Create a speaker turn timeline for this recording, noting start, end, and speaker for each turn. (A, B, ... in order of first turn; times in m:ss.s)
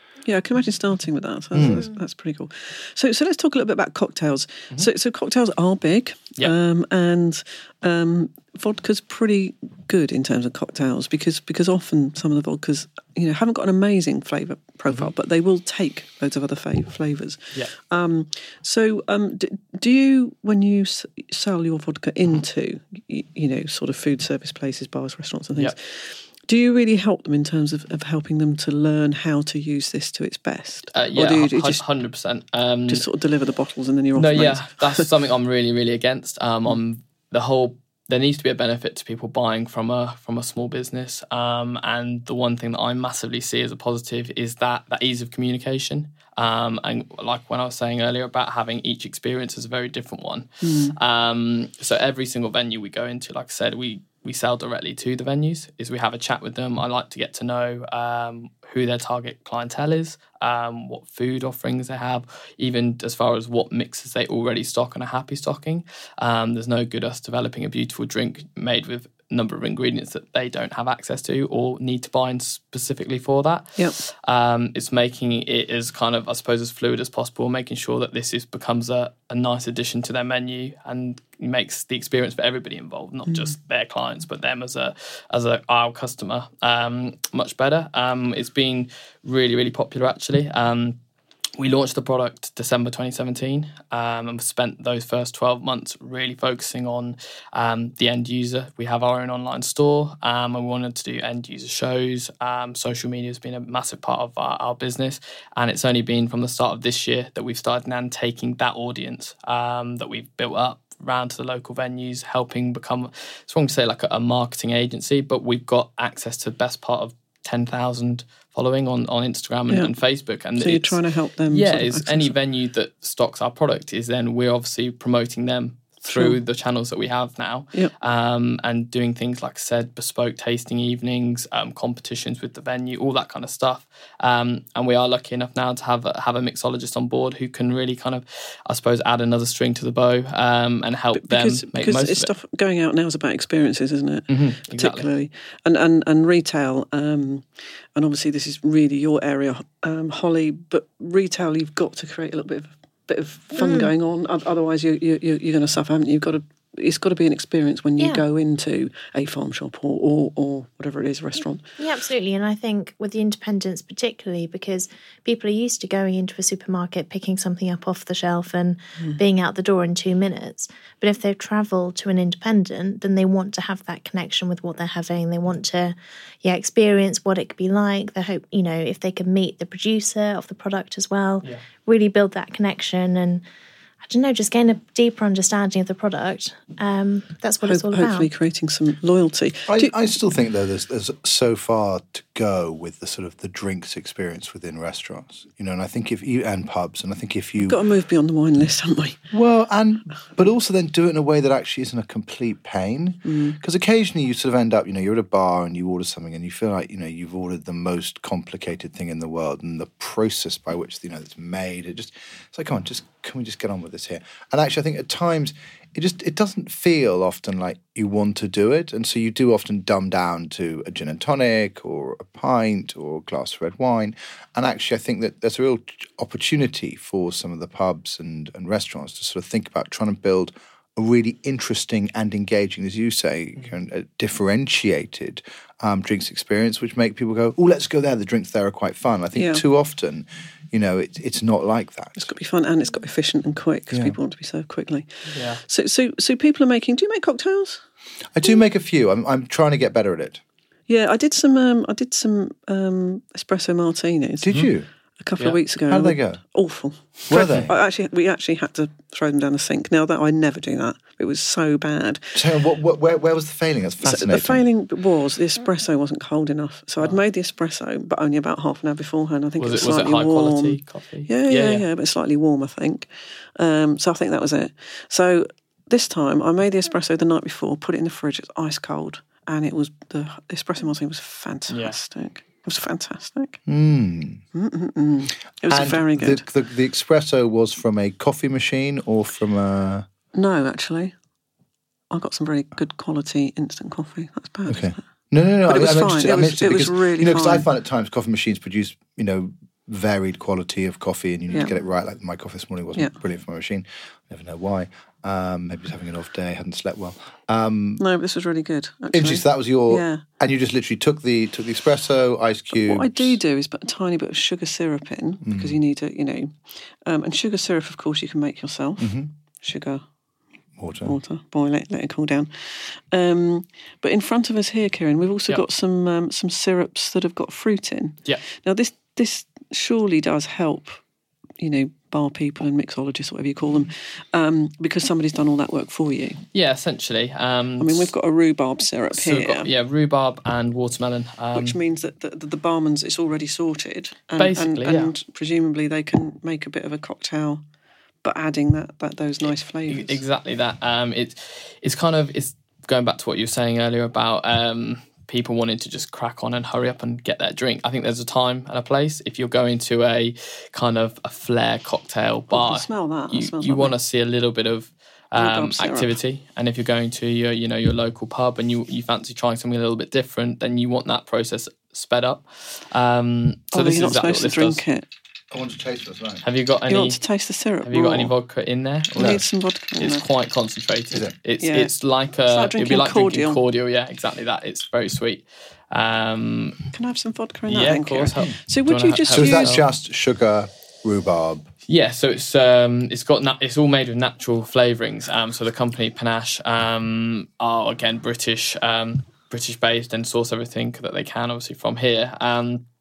0:00.2-0:31.8 A
0:01.5-0:01.9 B
0:30.9-0:33.0 C
0:32.9-0:35.0 A
0:34.2-1:31.0 C
0:50.6-0:51.0 A
1:31.6-2:22.3 C
2:00.6-2:02.3 A
2:06.0-2:06.4 A
2:21.2-2:41.6 A
2:24.3-2:25.1 C
2:33.6-2:33.9 D
2:38.0-2:38.2 D
2:41.8-3:03.4 D
3:04.0-3:08.3 D
3:07.6-3:09.9 A
3:09.7-3:17.8 B
3:17.7-3:19.2 A
3:19.3-4:02.3 B
3:23.2-3:23.6 A
3:59.4-3:59.6 A
4:02.2-4:07.8 A
4:03.9-4:04.2 B
4:05.3-4:05.6 C
4:08.3-4:10.4 B
4:10.9-4:14.6 A
4:14.4-4:14.9 B
4:15.2-4:22.4 A
4:15.9-4:16.4 B
4:17.3-4:17.8 B
4:22.4-4:24.6 B
4:24.0-4:43.6 A
4:29.6-4:31.9 C
4:41.7-4:42.0 C
4:43.7-4:44.4 B
4:44.5-4:46.4 A
4:45.7-4:50.1 B
4:50.3-4:51.1 A
4:52.1-4:55.0 A
4:54.7-5:08.0 B
4:55.7-4:57.7 A
5:01.5-5:01.8 A
5:08.0-5:10.2 A
5:09.1-5:13.4 B
5:12.7-5:20.0 A
5:15.4-5:15.8 B
5:19.0-5:19.3 B
5:20.8-5:21.2 B
5:21.0-5:31.0 A
5:31.6-5:36.4 A
5:36.5-5:38.1 C
5:37.8-5:39.7 A
5:39.1-5:41.8 C
5:41.6-5:47.6 A
5:44.4-5:45.1 C
5:48.2-5:50.2 A
5:49.9-6:14.8 C
6:02.5-6:04.0 A
6:05.4-6:06.2 A
6:13.7-6:15.0 A
6:15.5-6:16.4 B
6:16.4-6:17.2 C
6:16.9-6:18.3 A
6:17.8-6:19.4 C
6:19.2-6:19.4 B
6:19.2-6:20.3 A
6:20.0-6:26.8 C
6:21.6-6:21.9 A
6:22.5-6:23.6 A
6:26.9-6:29.8 A
6:27.7-6:29.9 C
6:29.3-6:31.7 B
6:31.9-6:42.8 C